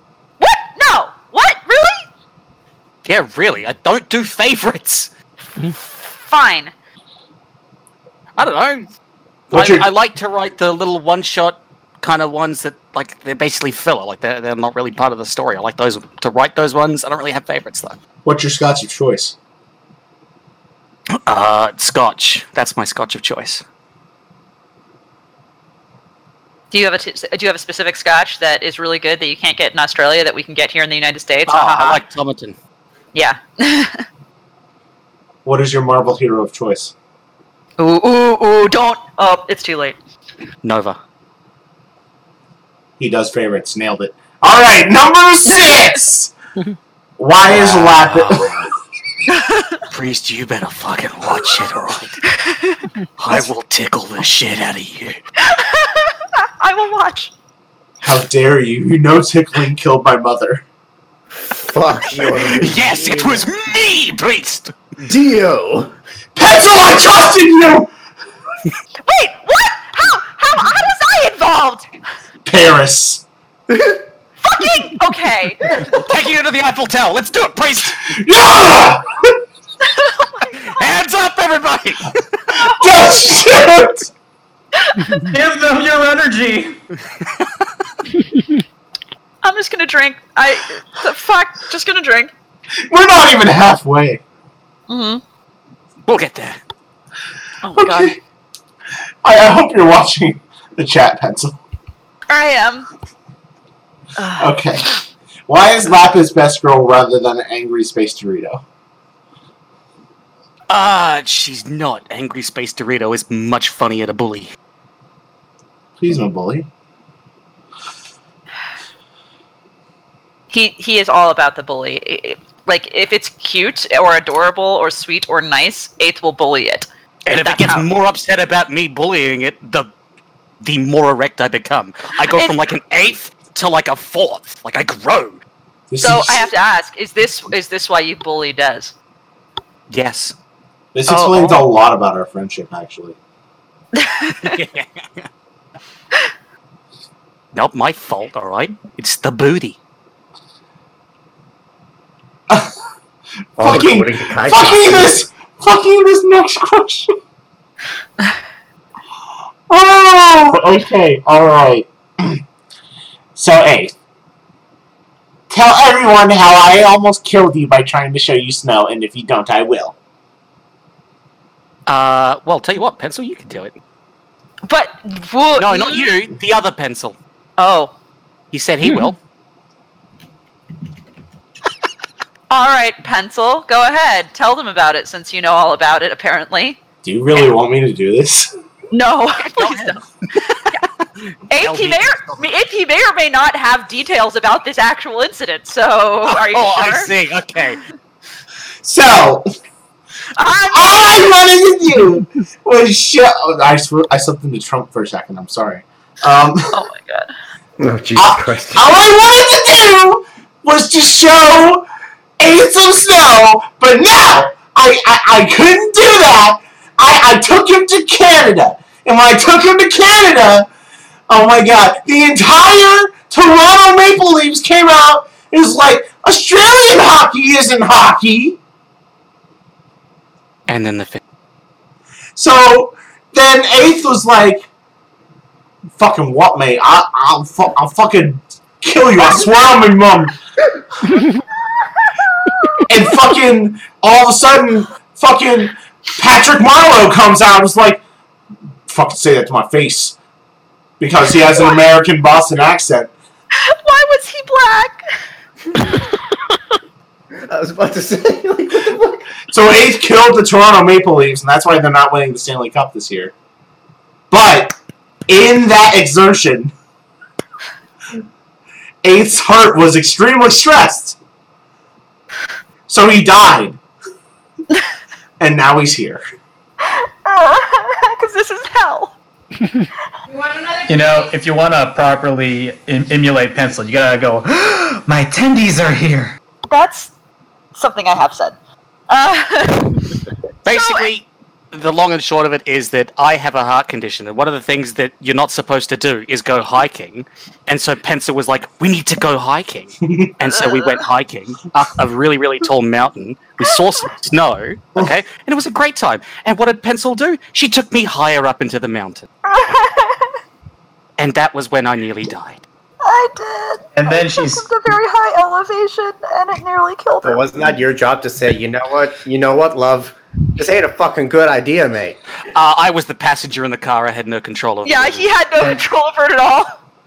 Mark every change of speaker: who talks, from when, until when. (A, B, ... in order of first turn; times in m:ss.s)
0:00.4-0:02.0 A
0:03.0-0:05.1 B
0:06.2-0:06.7 A
0:08.4-0:08.9 B
0:09.5-0:09.9 C
0:09.5-0:18.0 B
0:18.2-0:19.3 C
0:21.2-0:23.6 B
0:26.7-0:32.0 A
0:31.5-0:32.6 B
0:33.1-0:34.0 A
0:35.4-0:36.9 C
0:37.8-0:40.0 A
0:40.6-0:41.0 B
0:43.0-0:46.3 C
0:47.2-0:48.7 C
0:47.4-0:48.6 B
0:49.3-0:49.8 A
0:49.9-0:52.2 B
0:52.4-0:52.8 A
0:53.2-0:55.2 B
0:55.4-0:57.3 A
0:58.0-1:00.6 C
1:01.4-1:03.5 D
1:02.2-1:04.7 B
1:05.0-1:05.9 D
1:06.3-1:07.9 C
1:09.0-1:11.9 A
1:12.4-1:13.2 C
1:13.7-1:14.0 D
1:14.4-1:15.8 A
1:15.9-1:18.0 B
1:18.1-1:19.3 C
1:19.8-1:20.8 A
1:20.7-1:22.2 B
1:22.5-1:24.1 C
1:24.8-1:25.2 A
1:25.2-1:26.8 E
1:29.4-1:32.3 A
1:32.9-1:34.2 C
1:34.9-1:35.2 A
1:36.1-1:36.6 B
1:37.6-1:38.2 A
1:37.8-1:38.2 C
1:39.2-1:41.5 C
1:42.3-1:42.9 A
1:44.2-1:45.0 A
1:44.4-1:44.9 C
1:45.5-1:48.6 C
1:50.7-1:54.5 B
1:56.0-1:56.7 C
2:00.5-2:07.9 A
2:07.2-2:09.9 B
2:10.6-2:15.4 B
2:12.3-2:12.5 A
2:15.9-2:16.5 C
2:16.0-2:18.9 A
2:19.9-2:20.3 B
2:20.9-2:23.2 C
2:21.1-2:21.6 B
2:24.0-2:24.6 A
2:24.4-2:25.3 B
2:27.5-2:29.8 B
2:33.6-2:37.1 C
2:33.6-2:35.2 D
2:39.7-2:42.4 C
2:43.4-2:43.9 C
2:45.5-2:50.0 C
2:51.9-2:53.8 B
2:54.6-2:56.1 A
2:55.6-2:57.2 B
2:57.6-2:57.9 A
2:58.5-2:59.2 B
3:02.5-3:06.8 A
3:07.0-3:08.5 C
3:08.9-3:10.8 A
3:09.5-3:10.0 B
3:11.5-3:17.1 A
3:11.5-3:12.4 B
3:16.3-3:17.8 B
3:18.8-3:19.5 C
3:20.4-3:21.4 A
3:20.7-3:26.8 C
3:26.7-3:27.3 A
3:27.8-3:28.9 D
3:28.2-3:31.8 C
3:32.4-3:40.7 C
3:41.3-3:48.6 C
3:50.7-3:51.2 B
3:52.4-3:54.7 C
3:56.0-4:00.4 C
4:02.9-4:08.0 C
4:08.9-4:10.2 C
4:11.0-4:13.1 C
4:13.6-4:15.0 A
4:17.5-4:19.3 D
4:19.5-4:23.3 C
4:24.3-4:24.7 C
4:25.3-4:26.7 C
4:29.0-4:31.2 C
4:32.9-4:33.8 C
4:35.4-4:36.2 C
4:36.9-4:39.1 A
4:40.9-4:46.3 E
4:46.7-4:47.1 A
4:47.7-4:48.6 A
4:49.1-4:50.1 A
4:50.6-5:09.3 B
4:50.7-4:51.1 A
5:09.4-5:10.3 A
5:11.2-5:12.6 B
5:13.0-5:17.4 A
5:13.9-5:14.7 E
5:17.2-5:22.2 D
5:22.5-5:25.3 B
5:24.8-5:26.7 A